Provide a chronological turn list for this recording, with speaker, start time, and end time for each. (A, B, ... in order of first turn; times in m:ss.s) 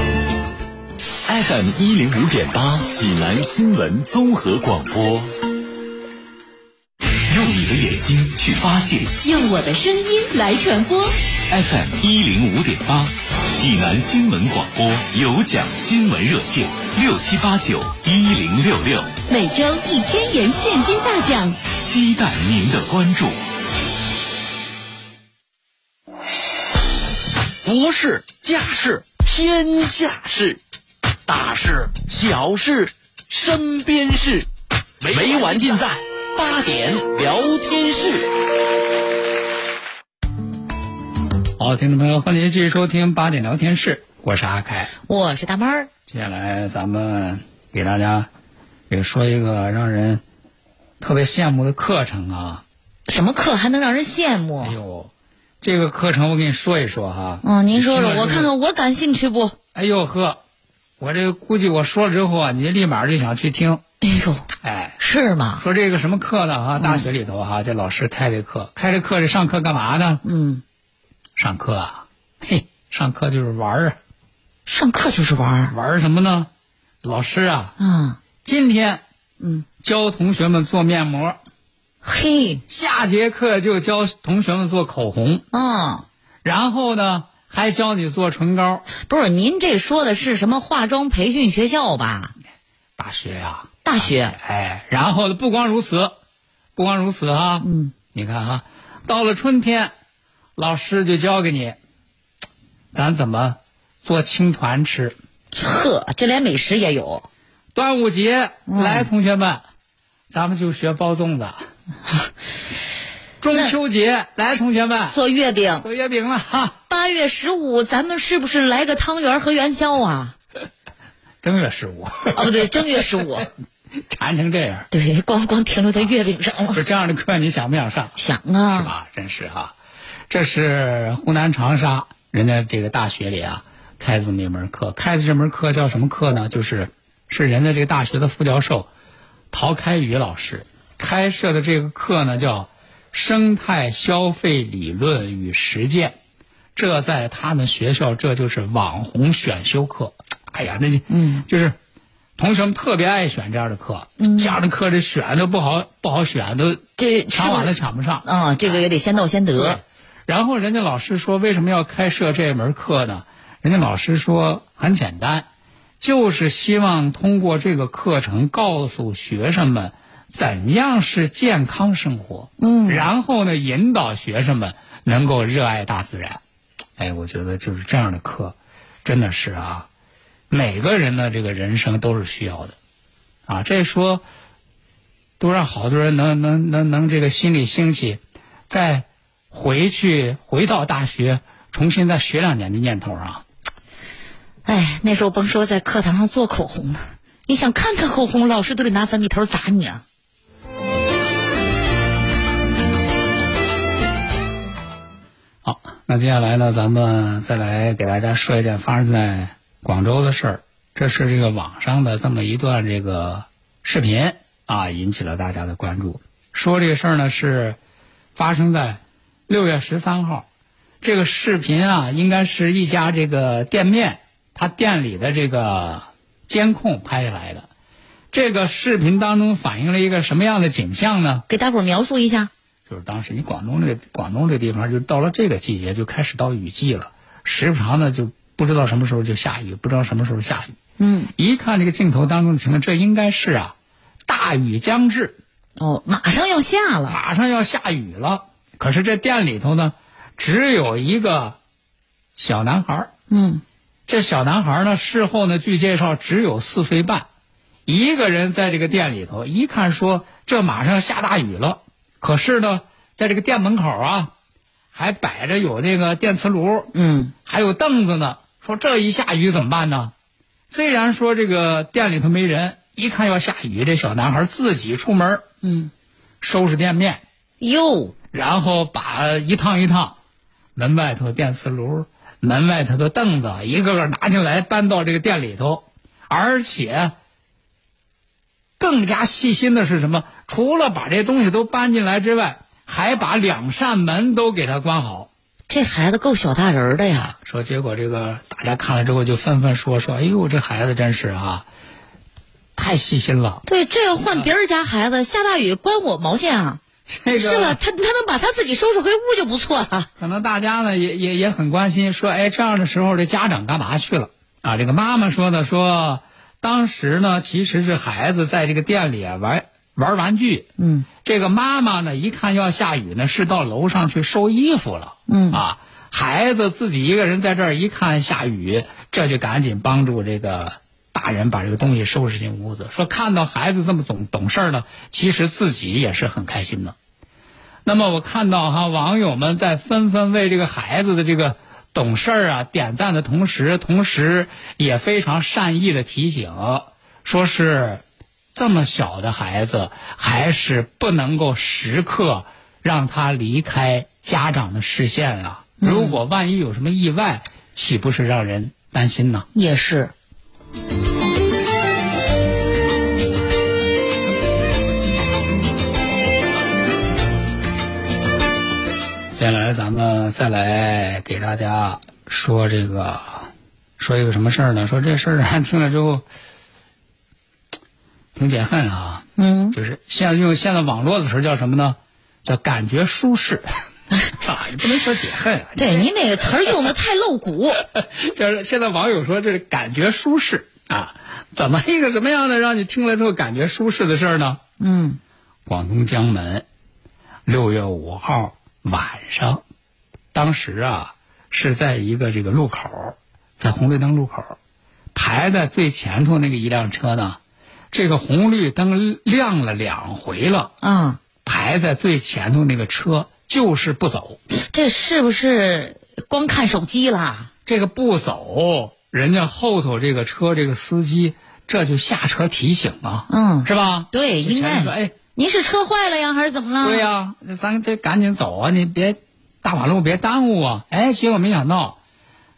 0:01.2-0:05.3 A
0:07.3-0:09.1 A
0:09.2-0:11.1 B
0:11.5-0:19.1 A
0:19.3-0:21.6 B
0:21.8-0:23.4 A
0:27.6-0:30.6 C
0:31.3-0:34.4 C
0:35.0-0:38.3 C
0:41.6-0:44.9 D
0:45.1-0:45.9 E
0:46.1-0:48.3 D
0:48.9-0:50.2 D
0:51.0-0:52.6 D
0:53.1-0:54.8 E
0:54.6-0:55.1 D
0:55.6-0:58.5 D
0:57.4-0:59.6 E
0:59.7-1:00.4 D
1:01.0-1:03.8 D
1:04.0-1:04.5 E
1:04.6-1:05.0 D
1:05.0-1:05.6 E
1:05.6-1:10.2 D
1:06.8-1:07.0 E
1:10.2-1:10.6 E
1:11.4-1:14.0 D
1:14.6-1:15.7 E
1:15.7-1:16.5 D
1:17.0-1:17.8 D
1:17.8-1:18.2 E
1:18.4-1:19.0 D
1:19.4-1:19.6 E
1:19.8-1:21.4 D
1:22.0-1:22.6 E
1:22.7-1:25.4 D
1:25.5-1:26.0 E
1:26.4-1:28.8 D
1:28.9-1:32.3 E
1:33.0-1:36.2 D
1:33.8-1:34.4 E
1:36.8-1:39.9 D
1:37.6-1:37.9 E
1:40.6-1:41.8 D
1:42.9-1:45.2 D
1:45.5-1:47.3 E
1:47.7-1:49.6 D
1:48.7-1:49.1 E
1:50.3-1:51.6 D
1:53.4-1:55.2 D
1:55.1-1:55.8 E
1:55.8-1:56.8 D
1:56.9-2:00.3 E
2:01.4-2:03.0 D
2:02.3-2:03.5 E
2:04.1-2:04.9 D
2:04.9-2:06.8 E
2:06.7-2:08.2 D
2:08.2-2:08.9 E
2:08.7-2:09.7 D
2:10.3-2:18.9 D
2:19.5-2:26.2 D
2:26.8-2:31.8 D
2:31.1-2:31.4 E
2:32.4-2:38.2 D
2:34.2-2:34.6 E
2:37.0-2:39.8 E
2:39.6-2:45.4 D
2:46.0-2:56.4 D
2:52.6-2:53.1 E
2:57.0-2:59.9 D
3:00.5-3:02.7 D
3:03.5-3:04.2 D
3:05.4-3:13.4 D
3:14.6-3:20.0 E
3:25.6-3:37.8 D
3:38.4-3:40.4 D
3:41.0-3:47.7 D
3:48.3-3:51.4 D
3:51.5-3:52.5 E
3:52.9-4:00.8 D
4:01.0-4:01.3 E
4:01.4-4:03.7 D
4:04.2-4:05.4 D
4:05.8-4:07.2 E
4:07.1-4:11.6 D
4:12.4-4:13.1 D
4:13.3-4:13.6 E
4:14.1-4:17.3 D
4:17.9-4:24.3 D
4:24.9-4:26.9 D
4:26.9-4:27.3 E
4:27.4-4:30.1 D
4:30.7-4:35.4 D
4:35.6-4:35.9 E
4:36.4-4:37.2 D
4:37.6-4:38.1 E
4:38.3-4:40.2 D
4:40.8-4:47.1 D
4:48.8-4:55.3 D
4:55.7-4:57.3 E
4:57.3-5:01.6 D
5:02.8-5:03.6 D
5:03.6-5:10.1 E
5:07.1-5:07.8 D
5:10.2-5:20.7 D
5:20.8-5:21.1 E
5:21.2-5:36.9 D
5:25.3-5:25.6 E
5:37.8-5:48.0 D
5:48.5-5:59.5 D
5:55.8-5:56.2 E
5:59.5-6:00.1 E
6:09.4-6:13.5 D
6:14.0-6:16.2 D
6:18.3-6:23.6 D
6:19.4-6:19.8 E
6:24.3-6:26.0 D
6:25.8-6:27.8 E
6:27.9-6:34.6 D
6:34.8-6:35.2 E
6:35.6-6:36.6 D
6:37.5-6:39.6 D
6:40.3-6:44.6 D
6:45.1-6:47.4 D
6:47.9-6:50.7 D
6:50.8-6:51.2 E
6:51.4-6:54.4 D
6:54.5-6:57.5 E
6:57.6-7:05.2 D
7:03.3-7:07.0 E
7:06.8-7:12.0 D